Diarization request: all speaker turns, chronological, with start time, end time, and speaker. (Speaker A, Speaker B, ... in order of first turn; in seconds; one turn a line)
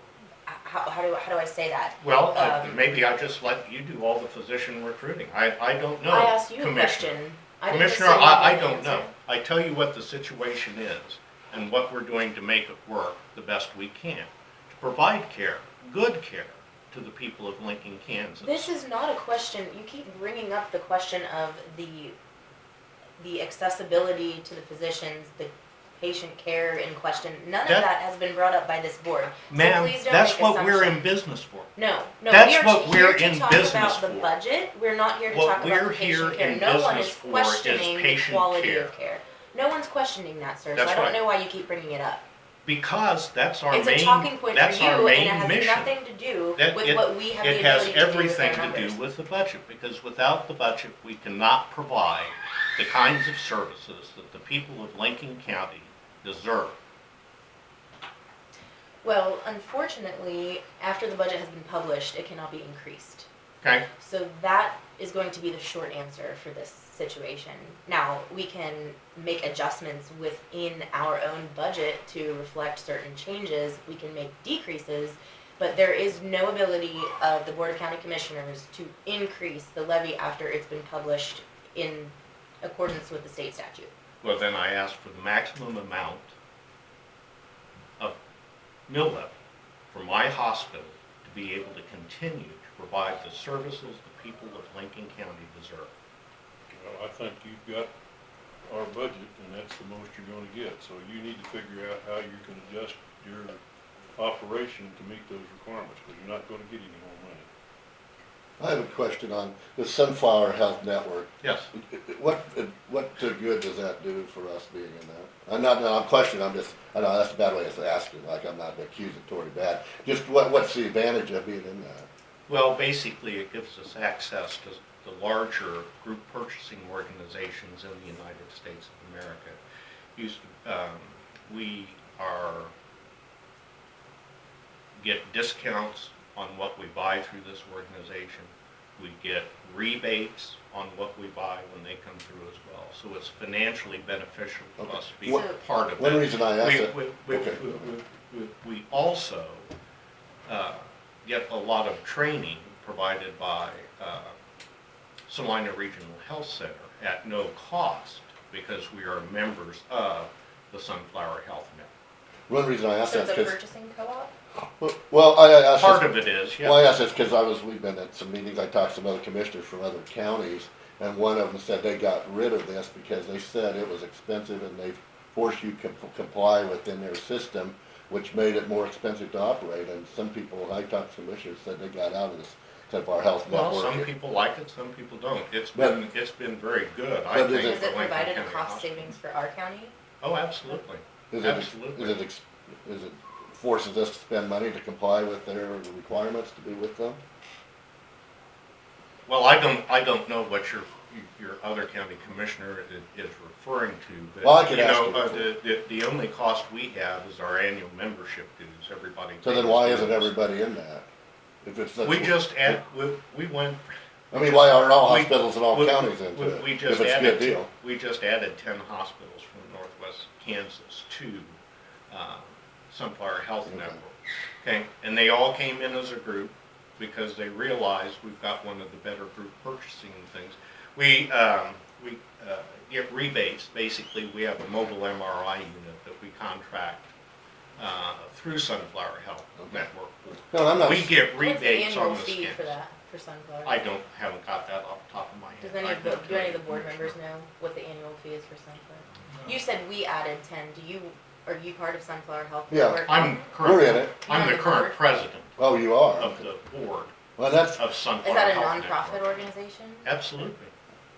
Speaker A: 0.5-2.9
Speaker B: 2.0-18.7
Speaker A: 6.1-9.1
Speaker A: 18.4-22.1
Speaker A: 23.2-31.0
Speaker B: 29.5-31.7
Speaker A: 31.8-42.2
Speaker B: 32.3-34.3
Speaker B: 35.3-38.9
Speaker B: 40.8-41.1
Speaker B: 42.6-45.9
Speaker A: 43.7-49.0
Speaker B: 46.5-56.8
Speaker A: 59.0-63.3
Speaker B: 63.6-63.9
Speaker A: 64.0-83.9
Speaker B: 84.2-86.3
Speaker B: 88.9-89.3
Speaker B: 89.9-95.9
Speaker C: 96.7-97.9
Speaker C: 98.7-103.6
Speaker C: 104.2-107.5
Speaker D: 108.6-122.1
Speaker B: 111.4-111.7
Speaker B: 122.5-129.6
Speaker B: 130.2-132.7
Speaker B: 135.0-149.7
Speaker D: 144.8-145.4
Speaker A: 145.2-145.6
Speaker D: 146.0-147.8
Speaker B: 150.4-154.3
Speaker B: 155.3-161.9
Speaker D: 162.5-163.5
Speaker A: 163.1-164.3
Speaker D: 164.8-184.1
Speaker B: 165.8-166.8
Speaker B: 183.5-189.1
Speaker D: 187.3-187.8
Speaker A: 187.6-189.9
Speaker B: 190.2-192.2
Speaker D: 191.3-197.2
Speaker B: 199.3-210.3
Speaker D: 204.4-205.4
Speaker D: 209.4-211.1
Speaker D: 211.6-212.8
Speaker B: 212.0-221.6
Speaker D: 214.3-217.7
Speaker B: 222.1-237.1
Speaker D: 223.7-223.9
Speaker B: 237.8-242.8
Speaker D: 240.5-241.2
Speaker A: 241.4-243.8
Speaker B: 243.6-247.2
Speaker A: 245.6-253.5
Speaker D: 252.7-254.1
Speaker B: 253.1-257.1
Speaker A: 254.2-255.0
Speaker D: 255.6-256.4
Speaker D: 257.4-257.8
Speaker B: 257.8-259.4
Speaker A: 258.2-260.2
Speaker B: 260.0-260.7